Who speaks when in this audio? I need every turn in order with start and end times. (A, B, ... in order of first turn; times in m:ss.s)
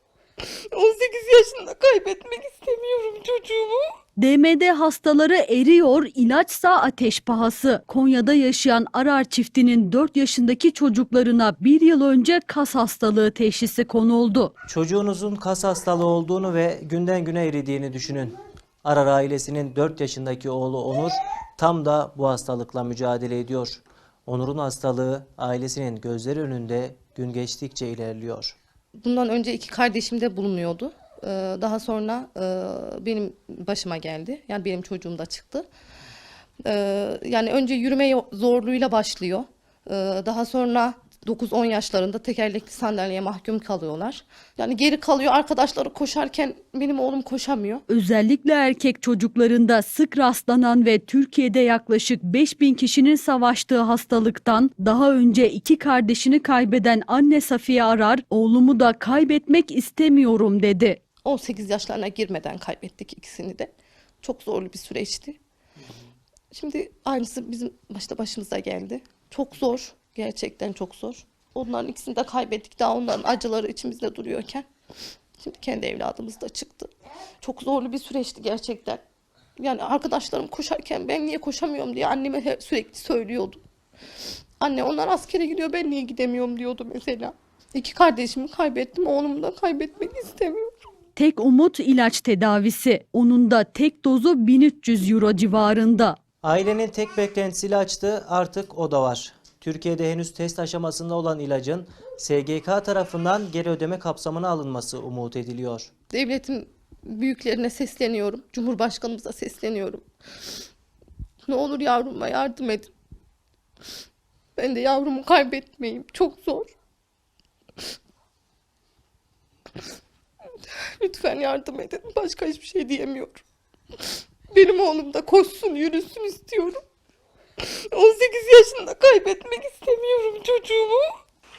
0:00.4-0:03.8 A
0:04.2-0:14.5 B
0:14.7-0:28.6 C
0:29.0-0:35.7 A
0:36.6-0:47.8 A
0:47.9-1:01.0 B
1:01.2-1:03.7 A
1:04.2-1:05.4 A
1:06.5-1:14.7 A
1:15.4-1:19.0 A
1:19.6-1:23.6 A
1:24.6-1:30.7 A
1:31.2-1:36.2 B
1:36.4-1:45.9 C
1:46.1-1:50.0 A
1:51.4-1:52.9 A
1:54.6-1:56.7 A
2:01.0-2:03.4 A
2:04.5-2:06.8 A
2:07.6-2:11.1 A